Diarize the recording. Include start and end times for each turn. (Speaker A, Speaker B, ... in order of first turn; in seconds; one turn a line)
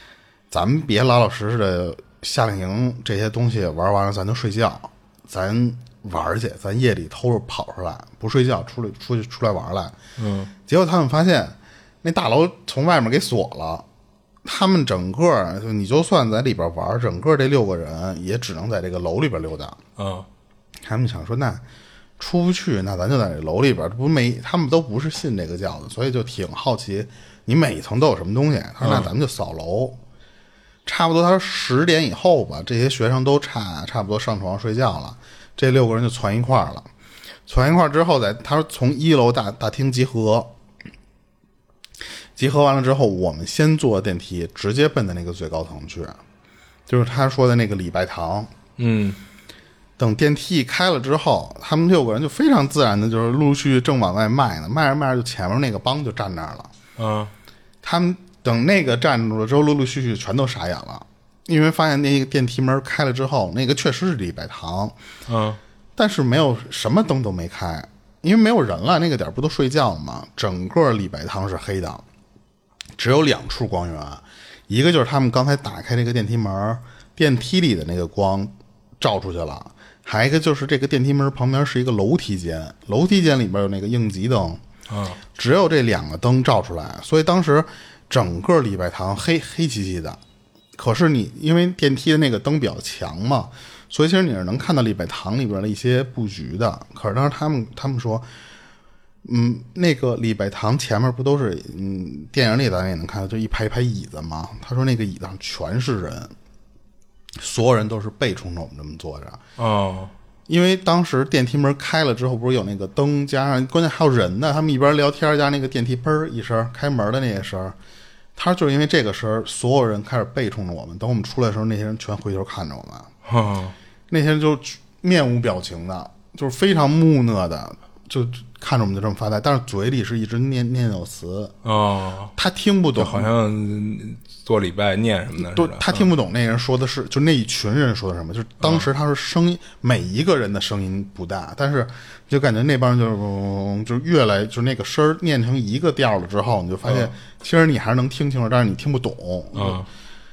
Speaker A: 0.5-10.0
Speaker B: 10.2-10.5
Speaker A: 10.7-13.9
Speaker A: 14.4-19.8
Speaker B: 20.0-20.3
Speaker A: 20.8-21.6
Speaker A: 22.2-30.0
Speaker B: 28.8-29.1
Speaker A: 30.9-36.9
Speaker A: 37.5-40.5
Speaker A: 42.4-46.2
Speaker A: 46.9-48.5
Speaker B: 48.8-49.2
Speaker A: 50.0-56.7
Speaker B: 57.0-57.3
Speaker A: 57.8-65.0
Speaker B: 65.3-65.6
Speaker A: 66.0-72.0
Speaker A: 73.0-84.6
Speaker B: 84.9-85.2
Speaker A: 85.3-90.2
Speaker A: 90.8-98.3
Speaker A: 99.2-106.3
Speaker A: 107.4-109.4
Speaker B: 109.6-110.1
Speaker A: 110.5-117.8
Speaker A: 118.4-123.1
Speaker B: 123.3-123.8
Speaker A: 124.1-131.6
Speaker B: 131.6-132.3
Speaker A: 132.4-133.3
Speaker B: 132.9-136.1
Speaker A: 135.4-149.8
Speaker B: 138.6-138.9
Speaker B: 146.8-147.1
Speaker B: 149.5-149.9